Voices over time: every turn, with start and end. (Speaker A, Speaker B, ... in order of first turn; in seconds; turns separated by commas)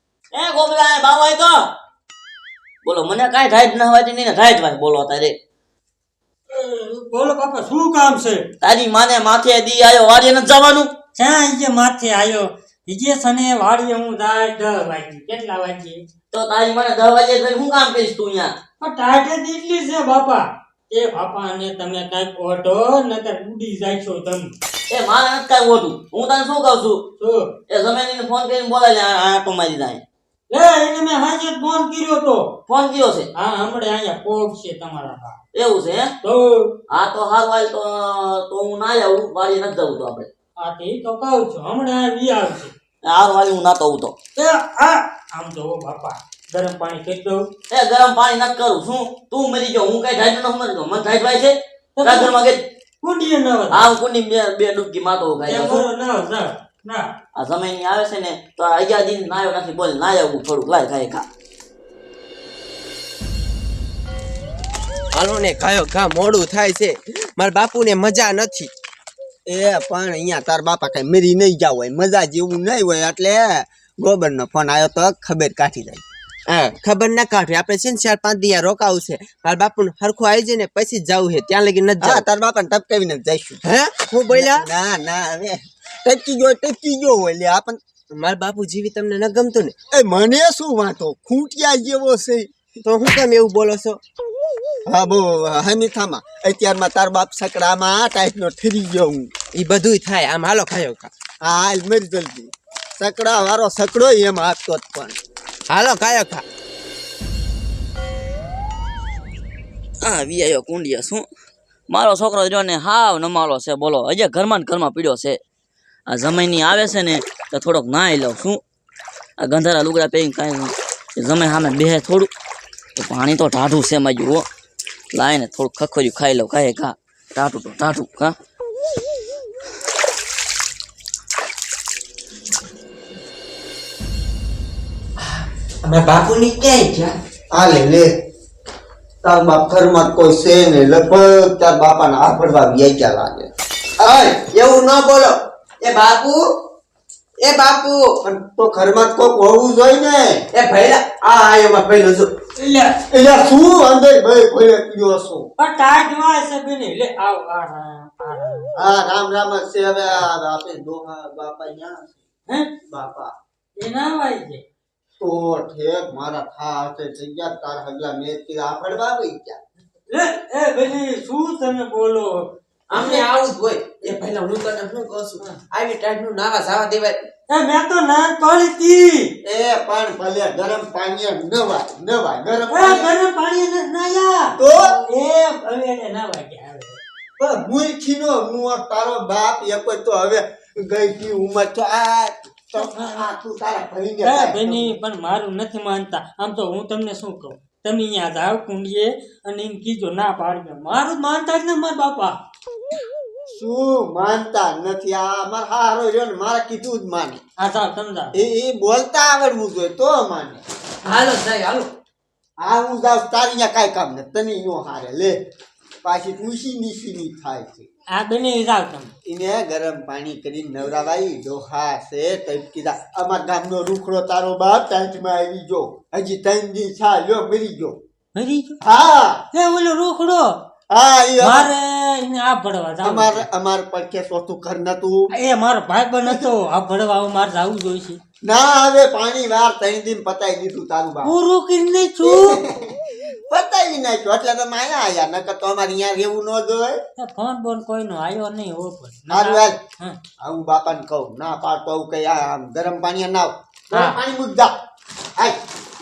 Speaker A: 0.3-1.6, Speaker A: 2.8-5.4, Speaker B: 6.5-8.4, Speaker A: 8.6-10.9, Speaker B: 11.2-16.0, Speaker A: 16.3-18.6, Speaker B: 18.8-24.5, Speaker A: 24.9-27.0, Speaker B: 27.2-27.5, Speaker A: 27.7-30.0, Speaker B: 30.5-32.5, Speaker A: 32.7-33.3, Speaker B: 33.4-35.4, Speaker A: 35.5-36.1, Speaker B: 36.2-36.7, Speaker A: 36.9-40.3, Speaker B: 40.6-42.7, Speaker A: 43.0-44.2, Speaker B: 44.4-47.4, Speaker A: 47.7-52.6, Speaker B: 52.0-52.3, Speaker B: 53.0-53.9, Speaker A: 53.7-55.9, Speaker B: 55.5-57.1, Speaker A: 57.4-61.3, Speaker C: 65.1-68.7, Speaker D: 69.5-76.0, Speaker C: 76.5-82.2, Speaker D: 82.0-83.6, Speaker C: 83.7-84.7, Speaker D: 84.3-87.8, Speaker C: 88.2-89.7, Speaker D: 89.9-92.5, Speaker C: 92.9-94.0, Speaker D: 94.9-99.3, Speaker C: 99.6-101.1, Speaker D: 101.4-105.2, Speaker C: 105.7-106.4, Speaker A: 110.0-111.3, Speaker A: 111.9-115.4, Speaker A: 116.1-118.6, Speaker A: 119.4-122.3, Speaker A: 123.0-124.5, Speaker A: 125.1-128.3, Speaker C: 135.2-137.2, Speaker D: 137.5-138.1, Speaker D: 139.2-144.4, Speaker C: 144.0-146.4, Speaker C: 147.4-148.2, Speaker D: 148.2-150.4, Speaker C: 150.6-152.3, Speaker B: 152.6-153.0, Speaker D: 153.1-155.5, Speaker B: 155.6-158.7, Speaker D: 158.8-162.2, Speaker D: 162.9-163.3, Speaker B: 163.8-164.6, Speaker D: 165.2-169.6, Speaker B: 170.1-172.4, Speaker C: 172.9-177.2, Speaker B: 173.0-173.3, Speaker B: 177.5-179.3, Speaker D: 179.4-183.1, Speaker B: 182.7-187.0, Speaker D: 184.6-185.0, Speaker D: 187.4-194.9, Speaker B: 192.8-193.3, Speaker B: 194.2-202.3, Speaker D: 203.5-207.4, Speaker B: 207.6-208.4, Speaker D: 208.3-210.6, Speaker C: 211.0-211.9, Speaker D: 212.6-215.4, Speaker D: 216.0-217.9, Speaker B: 218.1-219.1, Speaker D: 219.2-228.0, Speaker B: 228.4-228.8, Speaker D: 228.8-229.4, Speaker B: 229.5-230.6, Speaker D: 230.9-231.7, Speaker B: 231.4-233.5, Speaker D: 233.0-235.3, Speaker B: 235.3-238.2, Speaker D: 238.4-241.3, Speaker B: 241.2-242.6, Speaker D: 242.2-247.0, Speaker B: 247.2-250.2, Speaker D: 249.3-249.8, Speaker D: 250.4-254.7, Speaker B: 253.9-254.2